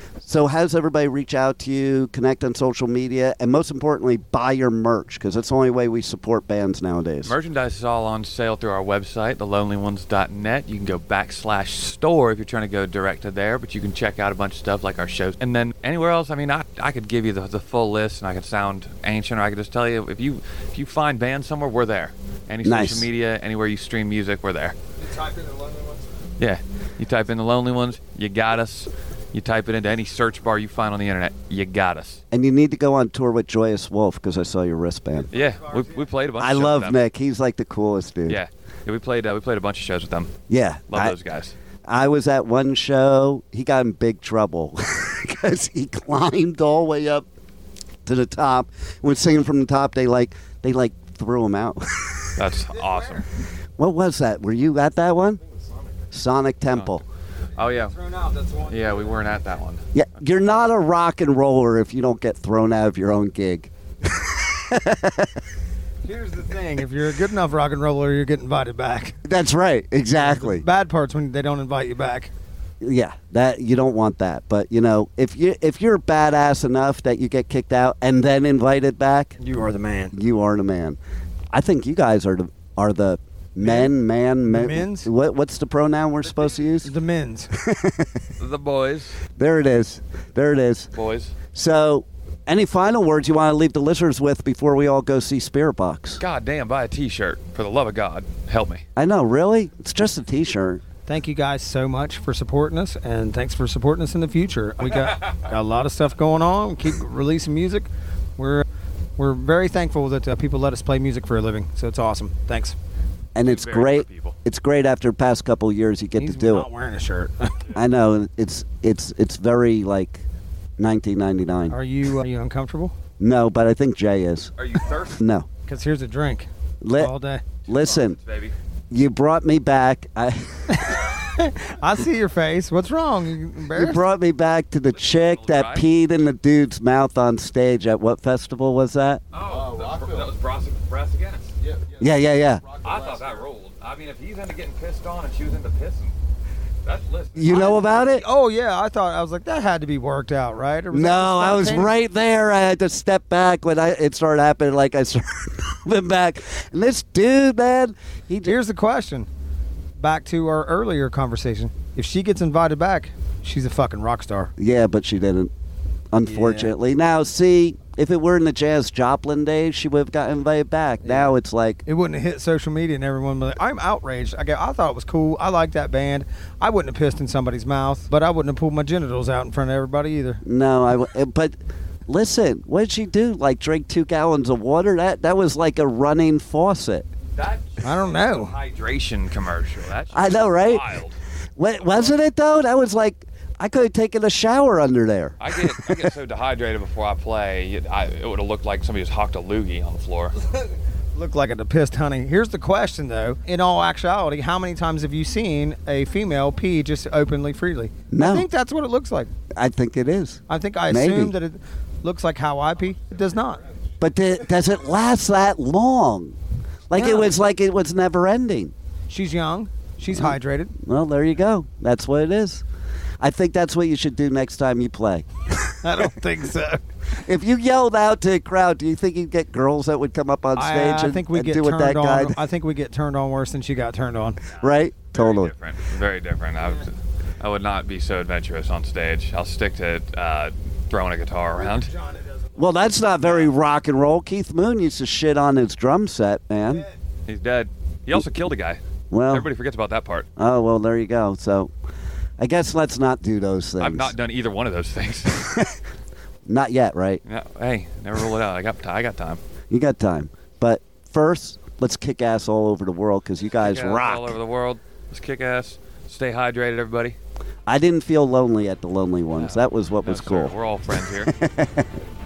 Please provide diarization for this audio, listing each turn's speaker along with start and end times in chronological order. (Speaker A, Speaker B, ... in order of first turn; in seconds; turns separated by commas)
Speaker A: 0.2-7.4, Speaker B: 7.2-24.8, Speaker A: 22.6-23.1, Speaker C: 25.0-26.1, Speaker B: 26.4-32.2, Speaker A: 32.3-35.3, Speaker C: 35.3-36.1, Speaker B: 35.3-37.0, Speaker A: 36.4-38.4, Speaker B: 38.3-40.3, Speaker A: 40.5-41.1, Speaker B: 40.9-41.5, Speaker A: 41.9-47.3, Speaker A: 48.1-52.5, Speaker B: 52.4-53.2, Speaker C: 52.7-53.2, Speaker A: 53.8-55.4, Speaker C: 55.5-55.9, Speaker A: 56.1-57.0, Speaker B: 56.7-57.0, Speaker B: 57.6-57.9, Speaker C: 57.6-59.4, Speaker B: 58.7-59.8, Speaker A: 59.9-65.3, Speaker C: 66.0-69.2, Speaker A: 69.2-70.7, Speaker C: 70.2-72.3, Speaker A: 72.8-79.3, Speaker C: 79.4-80.2, Speaker A: 80.1-81.0, Speaker A: 81.5-87.0, Speaker C: 83.6-83.9, Speaker C: 84.5-85.1, Speaker C: 86.6-87.5, Speaker A: 87.6-88.2, Speaker B: 88.4-89.2, Speaker A: 89.4-90.9, Speaker B: 90.9-91.3, Speaker A: 91.5-96.2, Speaker B: 96.2-98.8, Speaker A: 99.0-100.8, Speaker C: 101.1-108.7, Speaker C: 109.2-112.8, Speaker A: 113.3-116.7, Speaker B: 113.4-114.4, Speaker C: 116.2-117.6, Speaker A: 117.7-120.2, Speaker A: 120.8-121.8, Speaker C: 121.7-122.9, Speaker A: 123.2-124.5, Speaker B: 124.6-125.2, Speaker A: 125.2-125.5, Speaker C: 125.7-127.5, Speaker A: 126.8-127.1, Speaker B: 127.7-128.5, Speaker A: 127.7-128.2, Speaker A: 128.9-130.8, Speaker C: 130.7-134.0, Speaker A: 133.7-139.2, Speaker B: 134.9-135.9, Speaker B: 139.3-141.6, Speaker A: 142.0-142.6, Speaker B: 142.8-146.1, Speaker B: 146.8-147.8, Speaker A: 147.3-148.2, Speaker C: 147.5-151.9, Speaker A: 150.9-158.5, Speaker C: 158.4-159.3, Speaker C: 160.0-164.5, Speaker A: 164.6-165.5, Speaker A: 166.1-171.8, Speaker C: 166.3-166.7, Speaker C: 171.0-171.3, Speaker C: 171.9-180.4, Speaker A: 180.4-181.6, Speaker A: 182.1-187.1, Speaker B: 187.3-191.2, Speaker C: 187.8-188.6, Speaker A: 190.1-190.9, Speaker A: 191.6-195.9, Speaker B: 191.8-192.2, Speaker B: 195.4-200.4, Speaker C: 201.2-209.3, Speaker A: 208.1-208.5, Speaker A: 209.6-211.3, Speaker C: 210.5-213.6, Speaker A: 214.0-216.3, Speaker A: 216.9-218.7, Speaker C: 216.9-217.3, Speaker C: 219.1-220.7, Speaker A: 220.1-222.6, Speaker A: 223.2-226.1, Speaker C: 225.8-226.8, Speaker A: 227.2-232.4, Speaker C: 230.6-234.4, Speaker A: 234.6-235.5, Speaker B: 235.1-241.9, Speaker C: 241.6-243.4, Speaker A: 242.6-246.9, Speaker B: 247.3-250.3, Speaker A: 249.1-249.5, Speaker A: 250.4-251.7, Speaker A: 252.4-254.1, Speaker B: 253.8-255.5, Speaker A: 255.4-255.7, Speaker A: 256.5-257.2, Speaker B: 257.2-259.4, Speaker A: 259.7-264.4, Speaker B: 263.5-267.2, Speaker A: 267.7-271.9, Speaker B: 269.4-271.3